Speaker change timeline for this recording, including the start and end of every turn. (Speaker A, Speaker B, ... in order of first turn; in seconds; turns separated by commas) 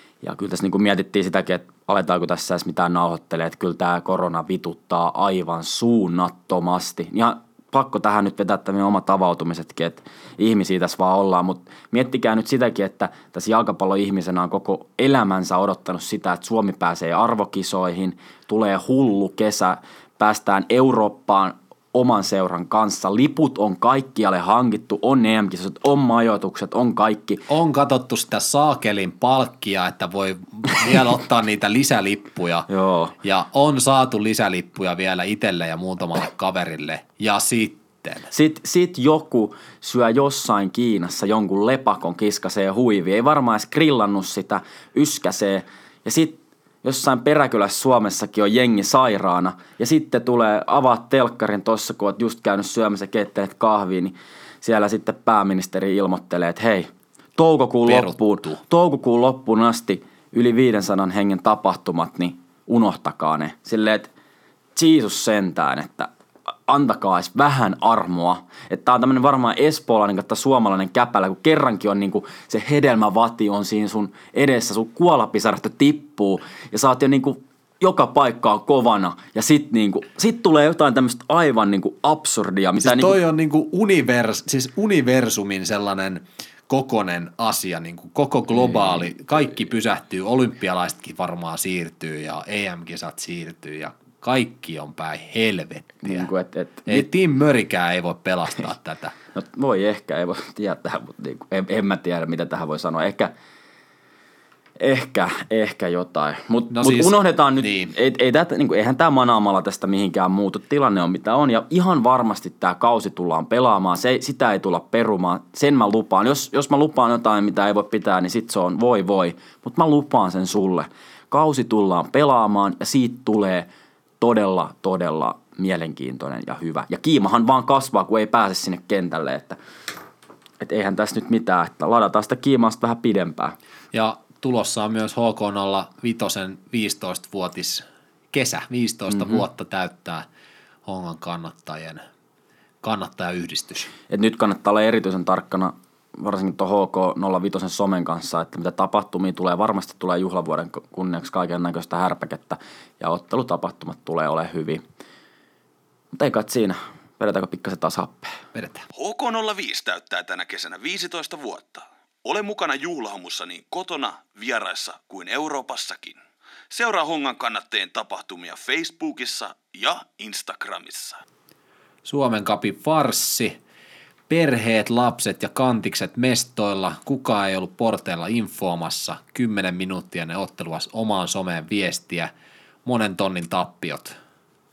Speaker A: 0.2-27.4, Speaker B: 27.5-32.7, Speaker A: 32.7-33.1, Speaker B: 33.2-38.3, Speaker A: 38.3-64.1, Speaker B: 57.8-58.6, Speaker A: 64.7-66.1, Speaker A: 66.7-83.2, Speaker B: 82.8-96.3, Speaker A: 96.0-97.1, Speaker B: 96.8-99.2, Speaker A: 99.3-103.3, Speaker A: 104.8-123.7, Speaker B: 106.7-107.9, Speaker A: 124.2-129.6, Speaker A: 130.6-133.6, Speaker B: 133.9-140.2, Speaker B: 140.8-142.0, Speaker B: 142.8-143.9, Speaker A: 144.1-154.8, Speaker A: 156.1-158.4, Speaker B: 158.5-158.9, Speaker C: 158.9-171.2, Speaker B: 172.0-173.6, Speaker B: 174.3-182.3, Speaker B: 182.8-184.1